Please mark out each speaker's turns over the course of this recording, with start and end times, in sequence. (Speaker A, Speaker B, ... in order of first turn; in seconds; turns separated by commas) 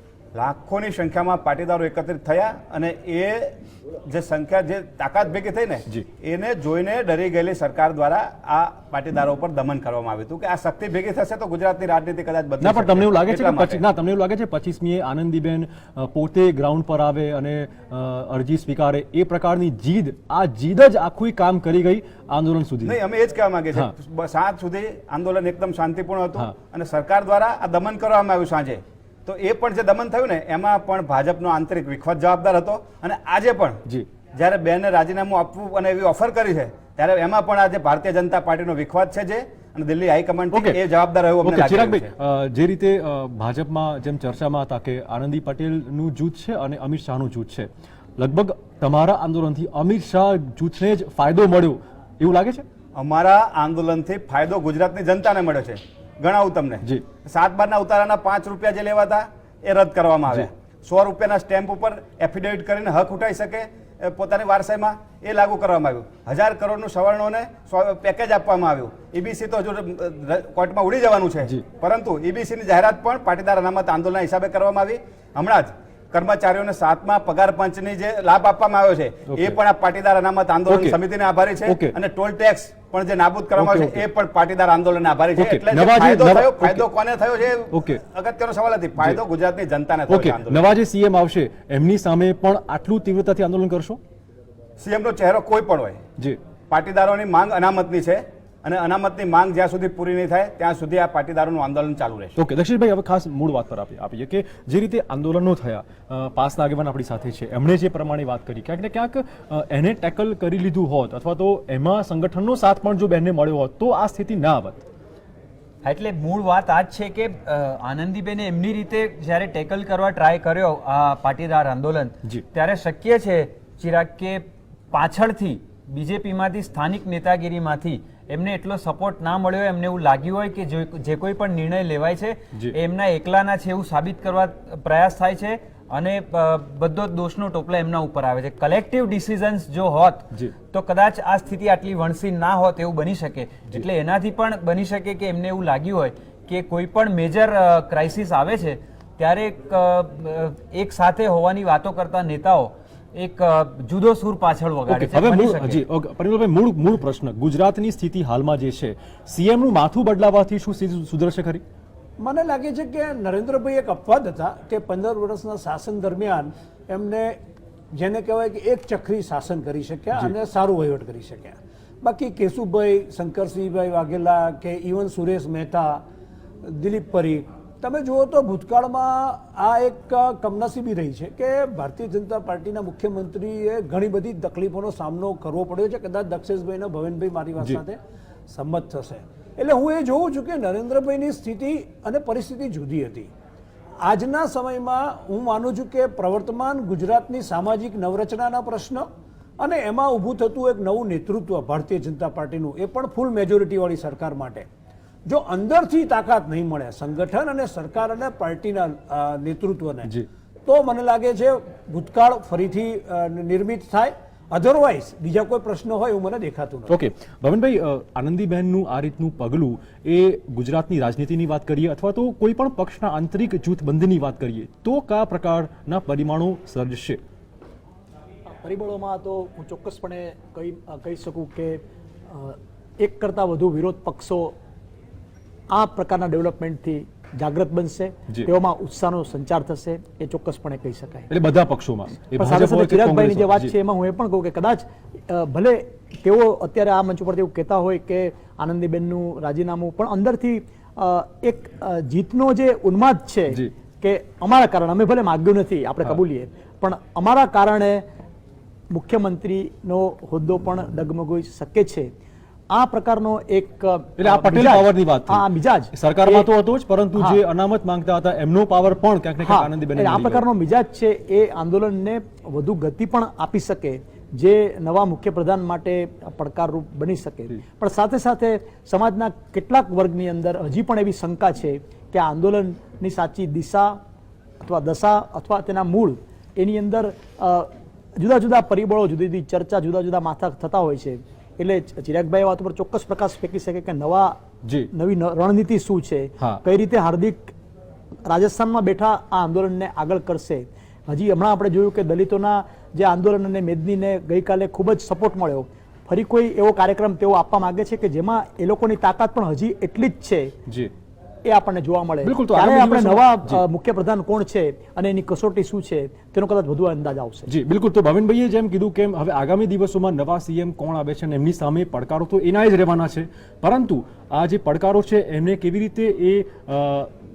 Speaker A: 0.3-3.5, Speaker A: 4.1-13.8, Speaker B: 12.6-23.0, Speaker A: 22.8-33.8, Speaker A: 34.4-42.1, Speaker B: 40.5-40.8, Speaker B: 41.4-52.6, Speaker A: 53.0-90.7, Speaker B: 79.3-79.6, Speaker B: 80.7-81.0, Speaker B: 81.7-82.0, Speaker B: 83.6-84.0, Speaker B: 85.4-86.9, Speaker B: 87.7-88.0, Speaker B: 90.1-94.0, Speaker A: 94.8-96.0, Speaker A: 96.7-102.3, Speaker B: 102.4-114.8, Speaker C: 115.8-155.9, Speaker B: 154.9-161.6, Speaker D: 162.2-167.4, Speaker D: 167.9-176.0, Speaker D: 176.6-188.0, Speaker D: 188.5-193.3, Speaker D: 194.0-199.1, Speaker D: 199.6-204.7, Speaker D: 205.3-210.1, Speaker D: 210.7-217.0, Speaker B: 216.9-227.2, Speaker E: 228.6-231.8, Speaker E: 232.3-234.6, Speaker E: 235.7-241.3, Speaker B: 241.3-243.7, Speaker E: 242.4-258.1, Speaker E: 258.9-262.1, Speaker E: 262.7-266.5, Speaker B: 264.2-270.4, Speaker E: 269.4-284.0, Speaker E: 284.6-294.4, Speaker E: 294.9-297.5, Speaker E: 298.3-310.6, Speaker E: 311.5-317.5, Speaker B: 312.2-313.6, Speaker B: 317.5-327.1